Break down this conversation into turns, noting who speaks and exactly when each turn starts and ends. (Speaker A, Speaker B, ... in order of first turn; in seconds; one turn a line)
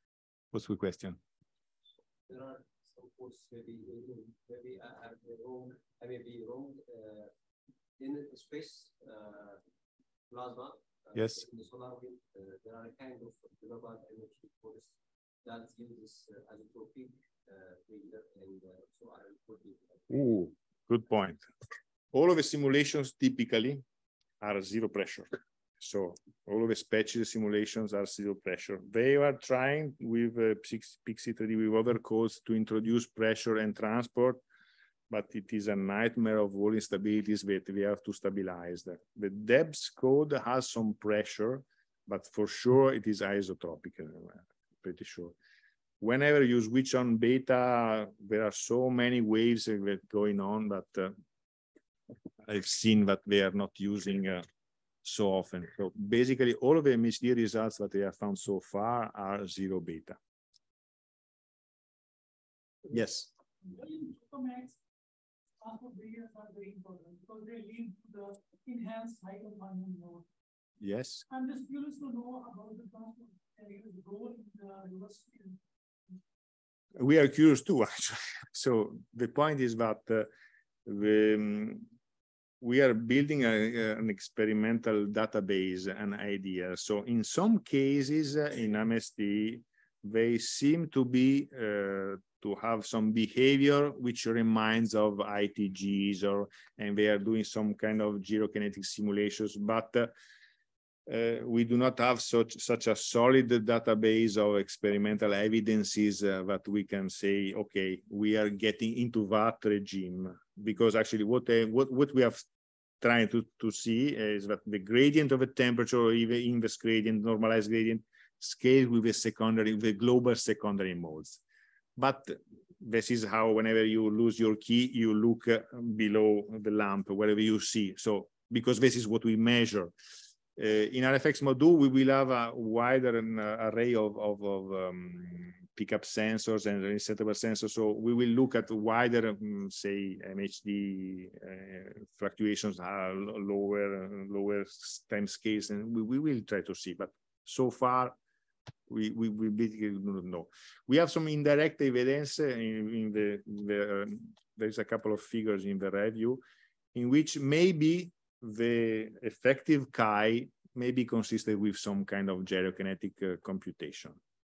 Speaker A: 0.5-1.2
Speaker B: 2.3-7.3
Speaker B: 8.0-9.6
Speaker B: 10.3-20.3
Speaker A: 11.1-11.4
Speaker A: 20.1-21.4
Speaker A: 22.1-23.8
Speaker A: 24.4-34.4
Speaker A: 35.1-45.3
Speaker A: 46.0-51.1
Speaker A: 52.4-54.4
Speaker A: 55.0-60.2
Speaker A: 62.9-63.3
Speaker C: 63.6-64.8
Speaker C: 65.6-70.2
Speaker A: 70.8-71.2
Speaker C: 71.3-75.6
Speaker A: 77.0-80.3
Speaker A: 80.8-81.8
Speaker A: 82.6-100.1
Speaker A: 101.1-112.4
Speaker A: 113.0-121.4
Speaker A: 122.0-129.9
Speaker A: 130.6-148.2
Speaker A: 148.9-156.4
Speaker A: 156.9-164.2